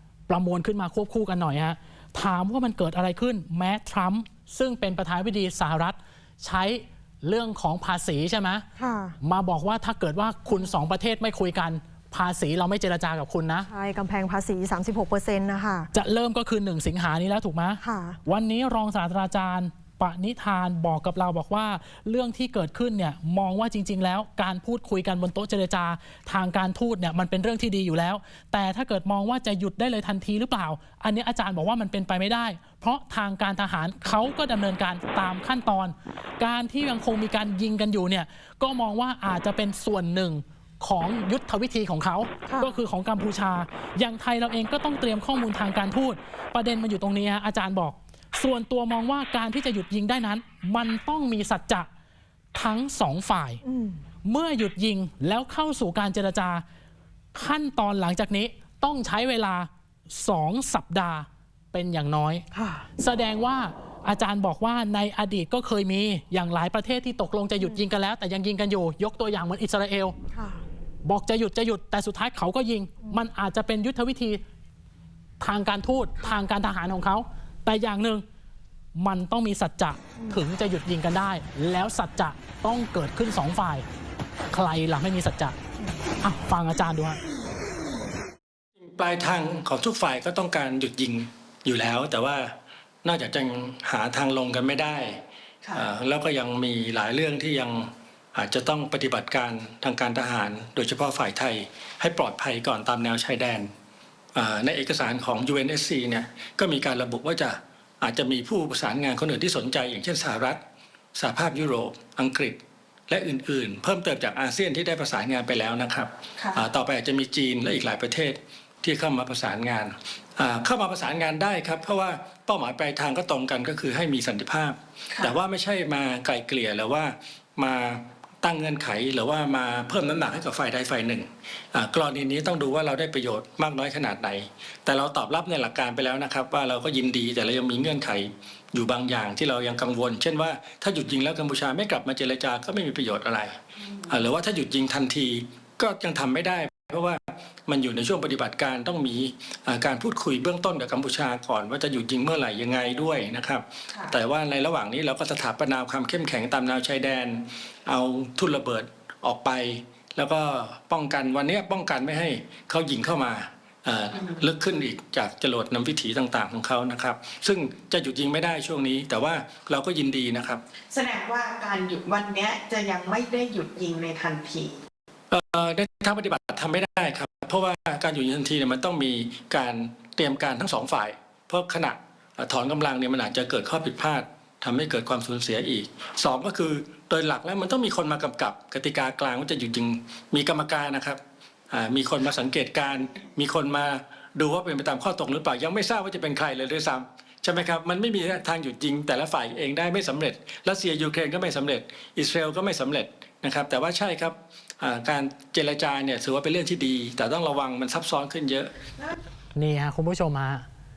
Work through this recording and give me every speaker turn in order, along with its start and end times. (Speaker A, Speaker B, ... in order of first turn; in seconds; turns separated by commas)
Speaker A: 0.3-8.7, Speaker B: 8.8-9.2, Speaker A: 9.2-13.7, Speaker B: 13.7-15.9, Speaker A: 15.9-51.9, Speaker B: 17.8-18.2, Speaker B: 42.5-42.7, Speaker A: 52.5-53.6, Speaker B: 53.6-54.0, Speaker A: 54.2-56.6, Speaker A: 57.3-62.5, Speaker B: 62.5-62.9, Speaker A: 63.0-70.2, Speaker B: 70.3-70.6, Speaker A: 71.0-74.4, Speaker A: 75.4-78.2, Speaker A: 79.0-83.8, Speaker A: 84.5-85.5, Speaker A: 86.2-87.2, Speaker C: 88.8-103.7, Speaker C: 104.3-110.6, Speaker C: 111.1-170.6, Speaker D: 116.4-116.6, Speaker D: 170.9-174.8, Speaker C: 175.3-191.2, Speaker C: 191.7-208.7, Speaker A: 209.6-210.6